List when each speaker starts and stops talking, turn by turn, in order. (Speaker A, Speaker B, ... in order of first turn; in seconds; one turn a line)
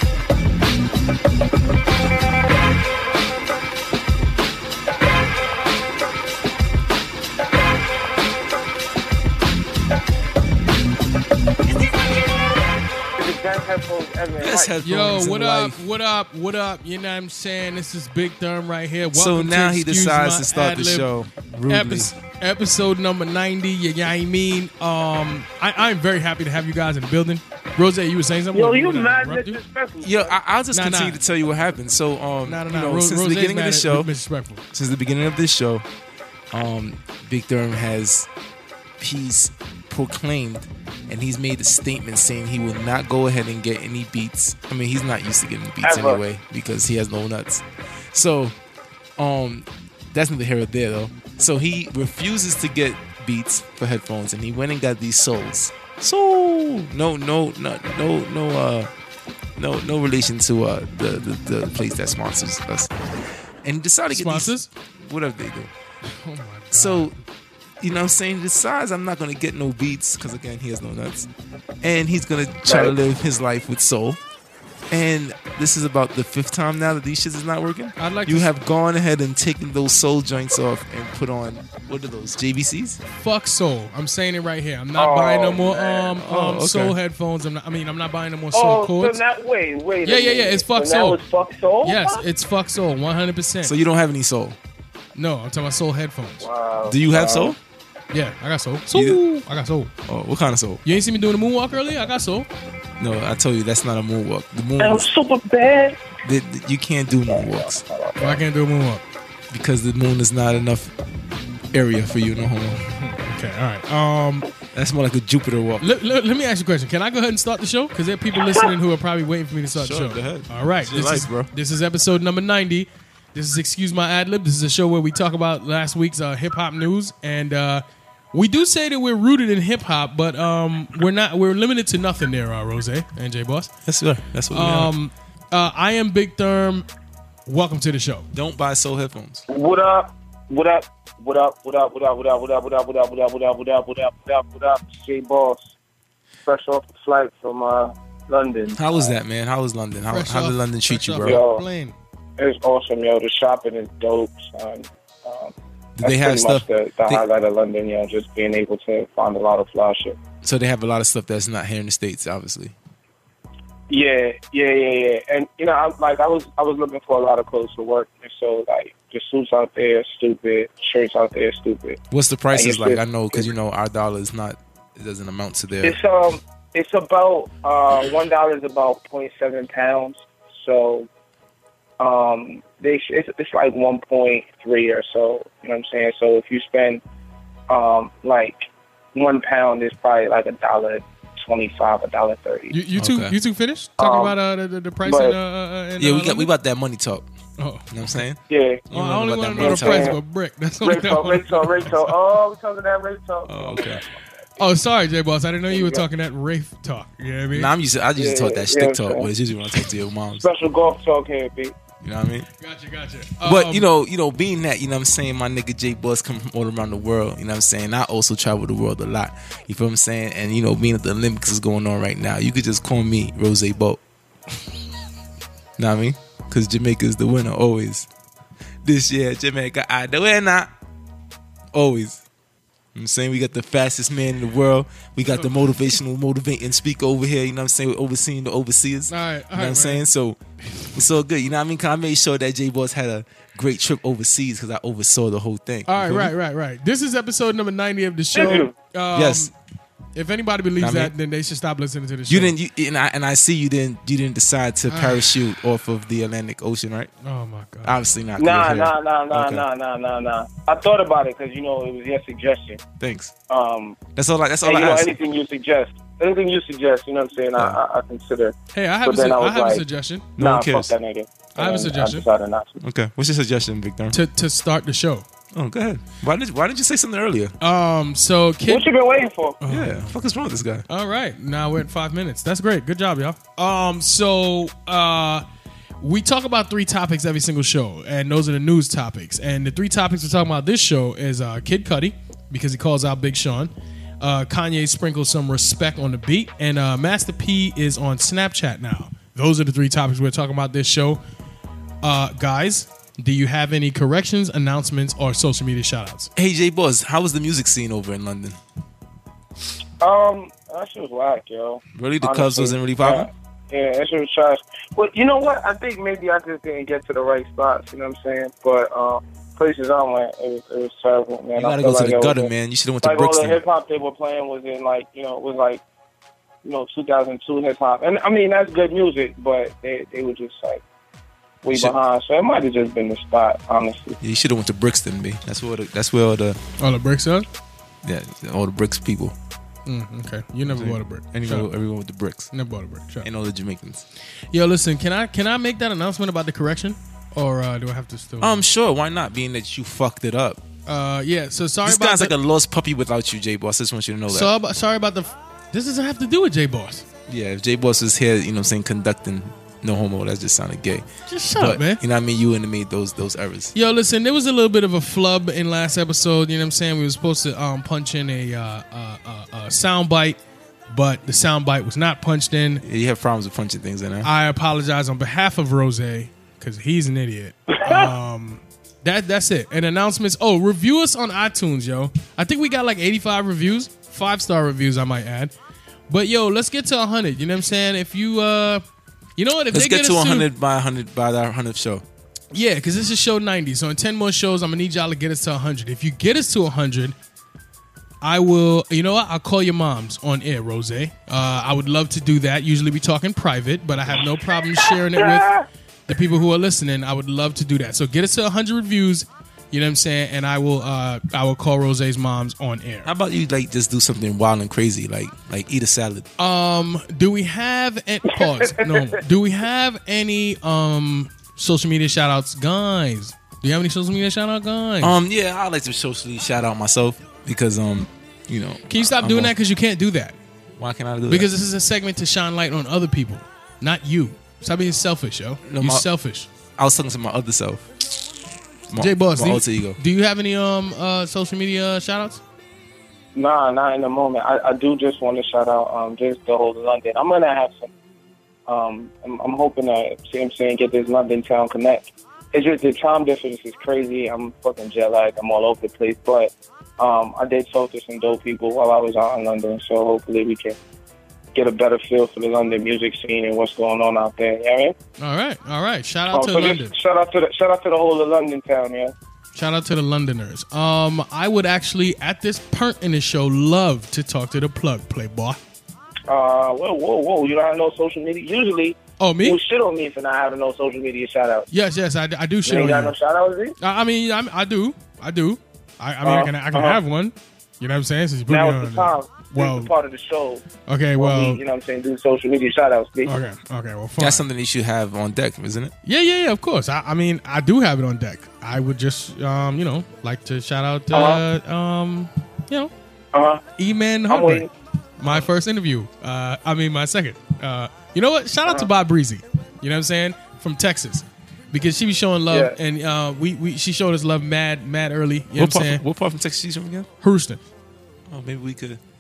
Speaker A: 13.2-14.7
Speaker B: 14.4-15.8
Speaker C: 14.8-21.1
Speaker B: 19.1-22.1
Speaker C: 21.7-29.6
Speaker A: 28.5-30.4
Speaker B: 30.0-34.1
Speaker C: 30.7-31.2
Speaker C: 32.5-34.6
Speaker B: 34.7-35.9
Speaker B: 36.5-38.3
Speaker B: 39.0-48.6
Speaker A: 45.8-46.2
Speaker B: 49.2-58.9
Speaker B: 59.6-62.9
Speaker B: 63.6-65.7
Speaker C: 64.1-64.7
Speaker C: 66.1-67.2
Speaker B: 66.7-67.1
Speaker B: 67.8-71.3
Speaker B: 71.8-74.2
Speaker A: 72.7-73.0
Speaker B: 74.9-83.0
Speaker C: 78.0-78.5
Speaker C: 83.1-89.2
Speaker A: 85.0-86.2
Speaker B: 86.2-87.0
Speaker A: 88.5-92.2
Speaker C: 90.0-91.2
Speaker C: 91.8-93.8
Speaker B: 93.6-94.6
Speaker C: 95.2-96.5
Speaker A: 96.4-97.6
Speaker B: 96.8-97.6
Speaker C: 98.1-99.9
Speaker B: 98.9-99.2
Speaker B: 100.0-100.8
Speaker C: 100.8-102.5
Speaker B: 103.0-105.1
Speaker A: 104.8-106.0
Speaker B: 106.2-107.8
Speaker A: 107.3-108.4
Speaker C: 108.2-109.0
Speaker B: 109.5-110.9
Speaker B: 111.7-112.8
Speaker C: 112.9-114.5
Speaker B: 114.7-115.9
Speaker C: 115.8-133.7
Speaker B: 119.7-121.5
Speaker B: 133.9-134.9
Speaker C: 134.5-136.8
Speaker C: 137.5-138.3
Speaker B: 138.3-139.4
Speaker A: 139.5-145.7
Speaker A: 146.5-149.1
Speaker B: 148.8-151.4
Speaker C: 150.1-152.0
Speaker A: 151.2-151.6
Speaker A: 152.4-160.2
Speaker B: 156.0-157.3
Speaker B: 160.4-162.8
Speaker A: 163.9-172.0
Speaker B: 172.1-176.0
Speaker A: 172.5-173.5
Speaker A: 175.8-181.1
Speaker A: 182.0-187.0
Speaker A: 187.7-192.7
Speaker C: 192.7-196.5
Speaker B: 193.0-193.4
Speaker A: 194.0-194.4
Speaker A: 195.1-195.4
Speaker B: 196.0-197.3
Speaker C: 197.6-198.2
Speaker B: 197.9-200.2
Speaker A: 198.5-198.8
Speaker C: 198.9-201.9
Speaker A: 199.6-200.2
Speaker A: 200.8-204.7
Speaker B: 203.5-204.0
Speaker C: 204.6-207.7
Speaker A: 205.7-206.1
Speaker B: 207.5-210.5
Speaker A: 208.2-209.3
Speaker A: 210.3-211.8
Speaker B: 212.0-212.5
Speaker C: 212.6-213.9
Speaker B: 213.4-224.0
Speaker B: 225.8-228.1
Speaker B: 228.8-230.7
Speaker B: 231.7-232.2
Speaker B: 232.9-240.4
Speaker C: 235.3-235.6
Speaker C: 239.1-240.0
Speaker B: 240.9-246.3
Speaker C: 245.9-249.5
Speaker A: 248.3-248.7
Speaker B: 249.1-249.5
Speaker C: 250.2-252.6
Speaker B: 250.8-251.1
Speaker B: 252.3-257.1
Speaker C: 254.9-255.3
Speaker C: 257.2-258.0
Speaker B: 257.9-259.6
Speaker A: 258.4-262.8
Speaker B: 263.0-263.3
Speaker A: 263.5-264.0
Speaker B: 264.1-265.2
Speaker A: 264.6-269.8
Speaker C: 268.7-270.3
Speaker B: 270.4-270.9
Speaker A: 270.4-272.8
Speaker C: 271.6-272.2
Speaker B: 272.8-274.2
Speaker C: 274.1-275.2
Speaker B: 275.5-277.5
Speaker C: 277.6-278.9
Speaker A: 278.7-279.6
Speaker C: 279.6-280.1
Speaker B: 279.7-280.9
Speaker C: 280.9-285.4
Speaker C: 286.0-301.2
Speaker C: 302.0-306.3
Speaker B: 306.4-308.6
Speaker A: 310.0-322.5
Speaker B: 311.9-313.3
Speaker B: 321.6-323.6
Speaker A: 323.0-325.8
Speaker A: 326.6-330.8
Speaker A: 331.6-334.2
Speaker B: 334.2-336.6
Speaker C: 336.8-337.5
Speaker B: 338.0-339.4
Speaker C: 339.9-341.7
Speaker B: 340.7-342.5
Speaker C: 342.5-343.3
Speaker B: 343.2-344.1
Speaker C: 344.5-348.6
Speaker B: 348.4-350.6
Speaker C: 350.9-352.4
Speaker B: 351.8-354.5
Speaker C: 354.3-357.1
Speaker B: 357.3-363.7
Speaker C: 361.3-362.0
Speaker C: 363.8-370.4
Speaker C: 370.9-372.8
Speaker B: 372.8-374.3
Speaker C: 374.2-385.5
Speaker C: 386.1-388.8
Speaker C: 389.4-390.5
Speaker B: 389.7-392.0
Speaker C: 392.5-397.2
Speaker C: 398.2-405.5
Speaker A: 405.1-405.7
Speaker C: 406.1-413.1
Speaker B: 413.1-416.3
Speaker C: 416.4-425.1
Speaker A: 418.6-419.0
Speaker B: 425.0-429.5
Speaker C: 428.9-430.4
Speaker B: 430.8-431.5
Speaker C: 431.3-436.5
Speaker B: 435.6-436.1
Speaker B: 436.8-437.9
Speaker B: 438.9-440.0
Speaker C: 439.0-442.4
Speaker A: 443.4-447.9
Speaker A: 448.7-460.8
Speaker A: 461.5-464.9
Speaker C: 465.2-466.9
Speaker A: 466.3-469.1
Speaker C: 469.6-475.6
Speaker A: 476.3-481.7
Speaker C: 479.2-479.6
Speaker C: 481.7-483.1
Speaker A: 482.6-483.8
Speaker C: 483.8-489.9
Speaker A: 486.2-487.0
Speaker A: 488.5-490.6
Speaker C: 490.9-491.6
Speaker A: 491.2-493.4
Speaker C: 493.3-494.4
Speaker B: 494.2-495.9
Speaker C: 496.1-502.9
Speaker A: 501.1-501.4
Speaker A: 503.3-503.6
Speaker C: 503.8-504.7
Speaker A: 504.3-504.7
Speaker C: 505.2-516.0
Speaker A: 512.5-512.8
Speaker B: 515.6-517.1
Speaker C: 517.2-517.6
Speaker B: 518.3-519.0